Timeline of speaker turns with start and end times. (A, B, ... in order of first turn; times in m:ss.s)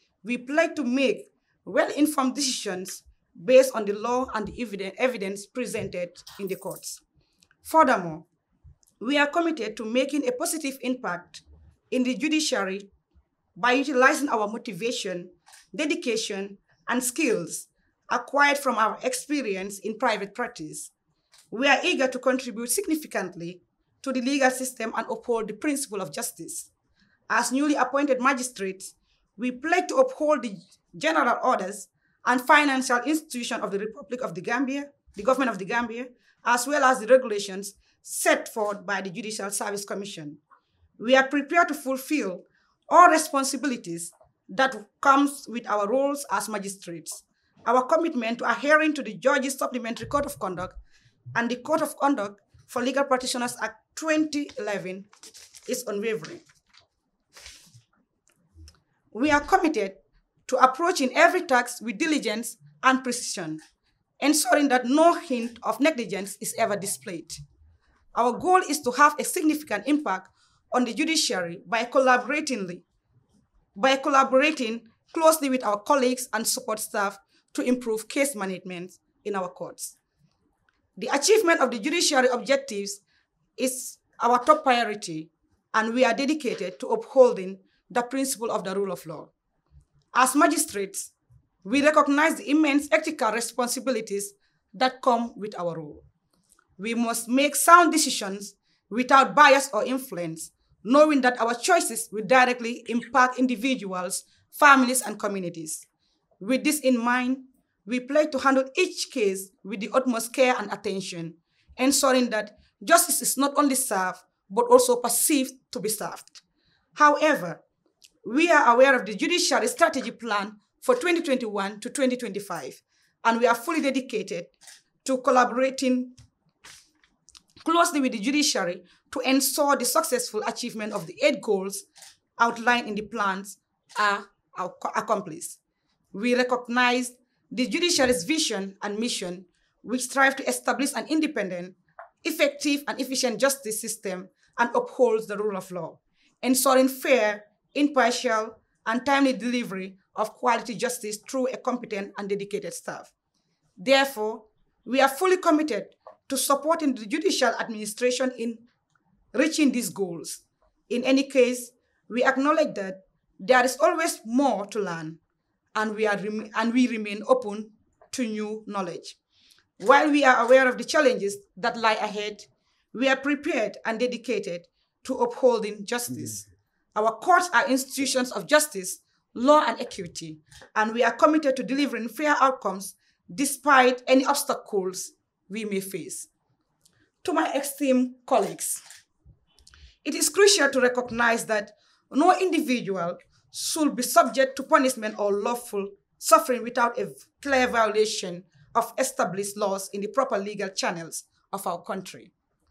0:00.2-0:07.0 A
0:07.6-0:08.2 A
0:09.0-0:12.9 A
0:13.6-0:20.9 A
0:21.5-0:26.7 A
0:27.3-0:40.4 A
0:41.0-0:50.8 A
0:51.3-0:55.1 A
0:55.6-0:56.4 A
0:59.1-1:03.6 A
1:04.2-1:07.4 A
1:08.1-1:12.8 A
1:13.7-1:20.0 A
1:21.0-1:23.0 A
1:23.6-1:29.3 A
1:30.1-1:31.1 A
1:31.6-1:36.0 A
1:36.8-1:45.9 A
1:46.4-1:56.4 A
1:56.9-1:57.6 A
1:58.2-2:04.5 A
2:05.0-2:06.1 A
2:07.6-2:11.8 A
2:12.4-2:15.6 A
2:16.1-2:33.1 A
2:33.8-2:38.6 A
2:39.3-2:45.2 A
2:45.7-2:49.2 A
2:49.8-3:06.3 A
3:07.2-3:08.8 A
3:10.0-3:22.3 A